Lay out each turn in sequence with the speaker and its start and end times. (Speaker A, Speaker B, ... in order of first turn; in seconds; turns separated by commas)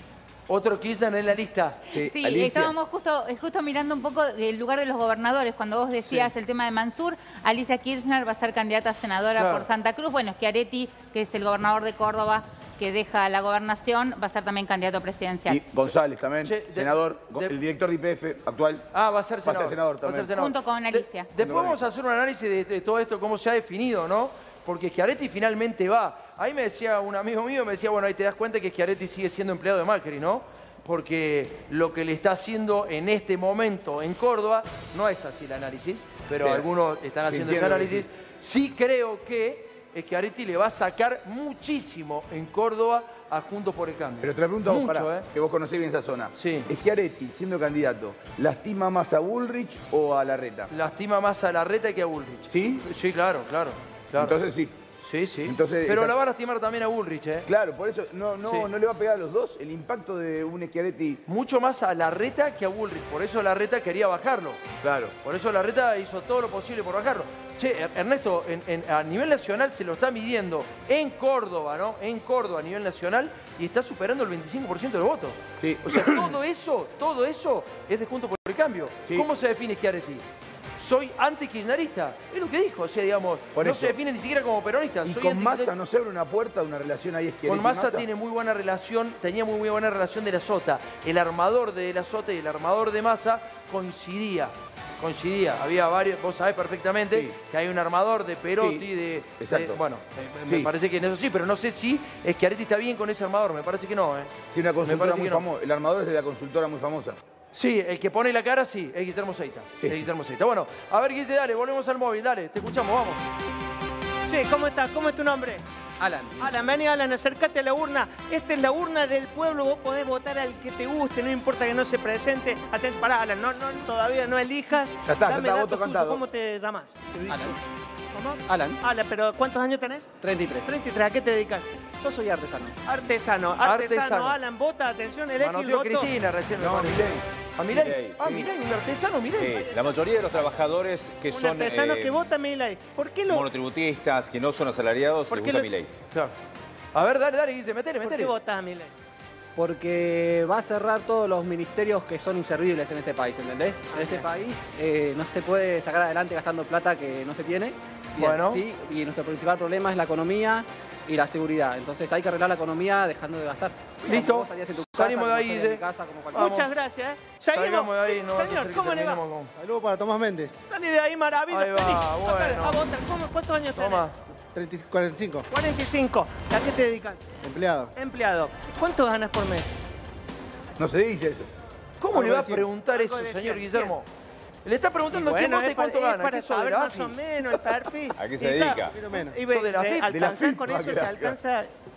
Speaker A: 0.5-1.8, Speaker B: 1.9-2.7, Speaker C: 1.9-15.6, Speaker A: 9.4-9.7, Speaker B: 15.5-18.9, Speaker A: 16.4-17.5, Speaker A: 18.9-45.3, Speaker B: 19.4-20.4, Speaker C: 20.3-21.3, Speaker B: 21.4-21.8, Speaker B: 36.4-36.7, Speaker B: 37.3-38.1, Speaker B: 44.2-50.7, Speaker A: 46.4-46.7, Speaker A: 50.7-54.4, Speaker B: 52.5-52.9, Speaker B: 54.1-54.8, Speaker A: 55.0-57.5, Speaker B: 55.4-56.1, Speaker B: 57.5-61.2, Speaker A: 61.3-64.7, Speaker B: 64.8-65.1, Speaker A: 65.2-80.2, Speaker B: 75.6-76.3, Speaker A: 80.8-85.7, Speaker B: 83.5-84.0, Speaker B: 85.0-88.1, Speaker A: 87.5-105.4, Speaker B: 97.1-97.4, Speaker B: 98.5-99.8, Speaker B: 104.5-107.2, Speaker A: 107.5-113.2, Speaker D: 114.3-115.6, Speaker E: 116.0-116.5, Speaker D: 116.4-127.6, Speaker B: 125.0-126.2, Speaker E: 127.3-127.6, Speaker D: 128.1-130.1, Speaker E: 128.5-128.8, Speaker E: 130.2-130.8, Speaker D: 130.7-131.7, Speaker E: 132.0-132.8, Speaker D: 132.9-136.1, Speaker A: 133.6-134.4, Speaker A: 135.4-139.6, Speaker B: 136.6-137.2, Speaker F: 137.7-138.5, Speaker F: 139.4-142.2, Speaker D: 139.4-140.7, Speaker D: 141.3-143.5, Speaker F: 143.3-145.9, Speaker D: 145.3-145.7, Speaker A: 146.9-148.3, Speaker D: 148.0-148.9, Speaker E: 149.6-166.6, Speaker D: 153.9-154.3, Speaker A: 158.2-158.6, Speaker A: 164.1-166.7, Speaker D: 166.3-169.2, Speaker A: 167.5-169.5, Speaker G: 169.6-170.5, Speaker D: 170.6-174.1, Speaker A: 171.5-172.8, Speaker A: 173.8-174.1, Speaker G: 174.5-175.5, Speaker D: 175.5-177.2, Speaker G: 177.4-177.9, Speaker D: 178.0-179.7, Speaker B: 180.8-181.5, Speaker A: 182.0-184.1, Speaker G: 182.1-182.7, Speaker D: 182.8-183.9, Speaker A: 184.7-187.2, Speaker D: 185.1-191.7, Speaker F: 188.2-189.0, Speaker G: 188.9-189.3, Speaker A: 189.5-190.1, Speaker B: 190.1-191.4